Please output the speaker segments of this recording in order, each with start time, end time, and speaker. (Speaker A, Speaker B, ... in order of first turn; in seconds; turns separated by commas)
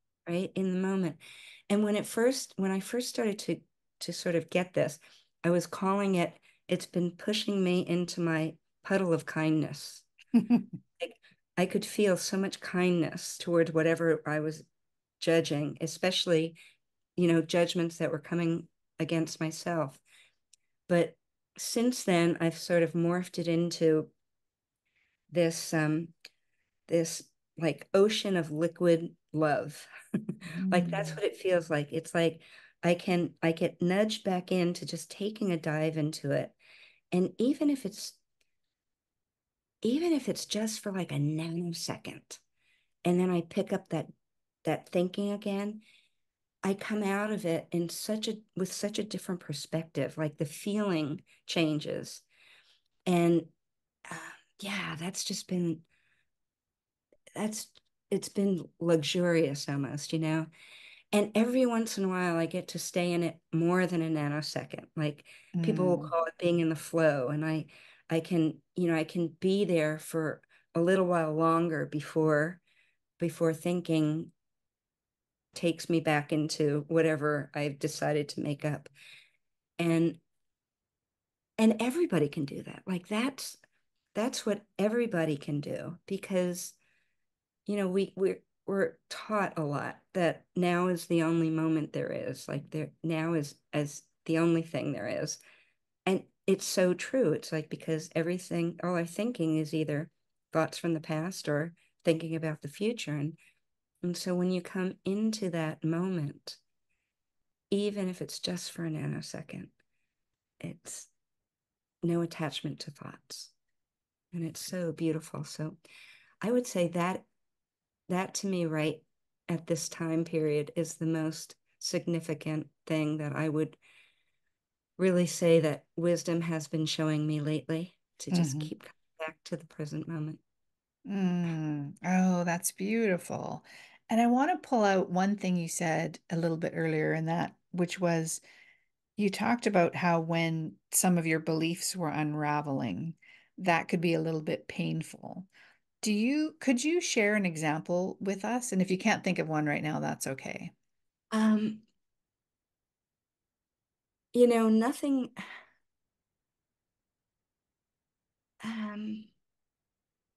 Speaker A: 0.3-1.2, Speaker A: 1.7-10.1, Speaker B: 10.3-10.7, Speaker A: 11.0-14.7, Speaker A: 15.2-16.6, Speaker A: 17.2-20.0, Speaker A: 20.9-24.1, Speaker A: 25.3-26.1, Speaker A: 26.9-36.5, Speaker B: 30.6-31.2, Speaker A: 37.1-38.2, Speaker A: 39.8-42.4, Speaker A: 43.0-44.1, Speaker A: 44.6-45.8, Speaker A: 46.6-52.2, Speaker A: 53.1-53.5, Speaker A: 54.0-55.8, Speaker A: 57.4-60.5, Speaker A: 61.1-72.6, Speaker B: 65.5-66.1, Speaker A: 73.2-74.3, Speaker A: 75.5-78.9, Speaker A: 79.8-80.2, Speaker A: 81.6-83.6, Speaker A: 84.1-86.8, Speaker A: 87.7-95.4, Speaker A: 96.0-103.4, Speaker A: 104.0-106.6, Speaker A: 107.7-109.7, Speaker A: 110.6-111.1, Speaker A: 112.0-113.5, Speaker A: 114.3-115.8, Speaker A: 116.4-117.3, Speaker A: 118.1-123.8, Speaker A: 125.0-130.4, Speaker B: 128.3-128.7, Speaker B: 131.1-138.4, Speaker B: 139.2-145.5, Speaker B: 146.0-150.7, Speaker A: 151.3-151.8, Speaker A: 154.3-155.3, Speaker A: 158.6-159.3